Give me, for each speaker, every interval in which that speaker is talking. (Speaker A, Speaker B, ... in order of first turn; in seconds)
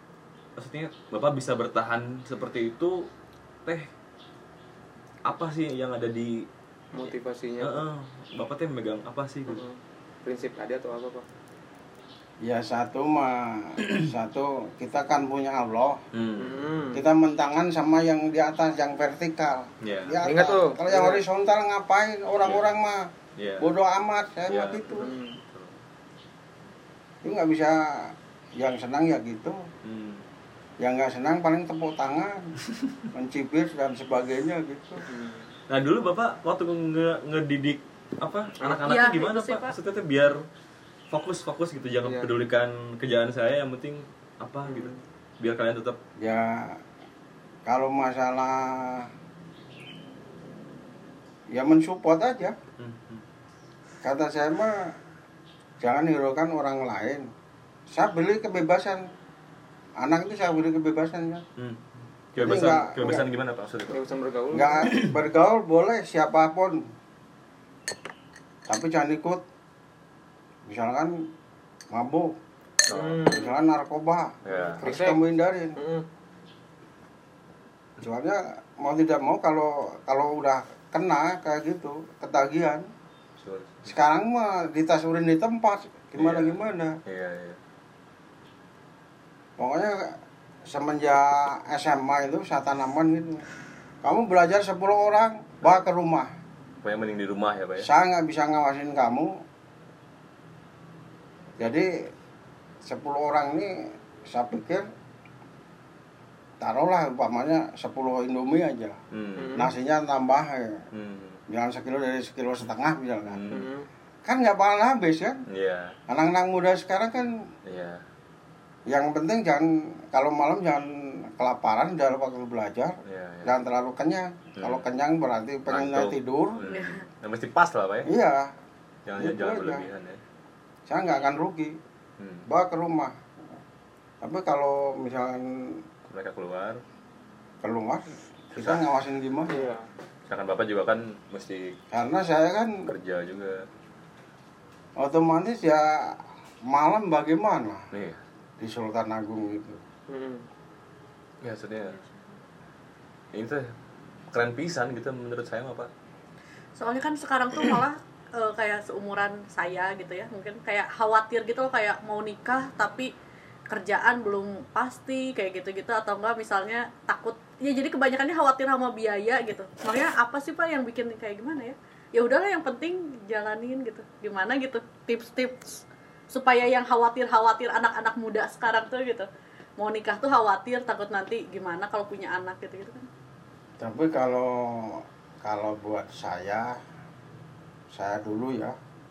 Speaker A: 0.6-3.1, 5.2-6.5, 7.6-9.6, 16.1-16.7, 19.8-20.2, 23.4-23.7, 24.5-25.7, 29.8-30.2, 35.7-40.5, 41.1-46.0, 52.8-53.2, 61.6-64.0, 72.9-73.3, 74.4-74.8, 83.4-83.9, 86.2-87.6, 96.8-97.9, 109.1-109.6, 110.9-111.4, 113.3-113.7, 115.5-115.9, 117.7-118.0, 123.0-123.5, 124.6-124.8, 125.7-128.1, 129.1-130.2, 132.2-132.5, 136.1-136.8, 138.5-138.8, 140.3-141.8, 142.9-143.7, 147.9-148.2, 151.4-152.0, 153.3-153.7, 154.3-155.9
Speaker B: 6.9-7.8, 9.5-11.2, 16.4-17.0, 20.2-21.2, 25.0-25.4, 35.0-35.5, 38.6-38.9, 42.0-42.3, 44.6-45.0, 63.9-64.9, 72.9-73.5, 74.7-75.2, 75.8-76.0, 109.4-109.7, 113.5-113.9, 139.5-139.8, 150.1-150.4
Speaker C: 12.4-16.0, 16.9-25.1, 27.2-29.6, 30.8-32.5, 33.1-35.0, 46.2-46.8, 47.6-49.1, 51.5-52.6, 54.0-54.9, 55.8-57.3, 57.9-59.1, 60.0-61.4, 62.4-63.2, 64.5-66.8, 68.7-69.4, 70.7-71.2, 71.9-72.3, 73.3-75.8, 78.0-82.9, 83.8-87.0, 89.6-93.4, 94.0-96.3, 97.8-99.4, 101.6-101.9, 102.8-104.8, 106.6-109.0, 109.5-110.8, 111.5-113.4, 114.2-115.4, 116.1-117.3, 118.9-126.6, 128.0-128.5, 129.2-129.8, 130.9-131.8, 132.5-133.1, 134.2-135.8, 137.6-139.7, 141.9-142.9, 145.0-147.8, 148.6-149.8, 183.8-186.8, 187.9-188.8
Speaker D: 38.8-39.7, 126.7-127.0, 156.8-163.1, 163.7-183.1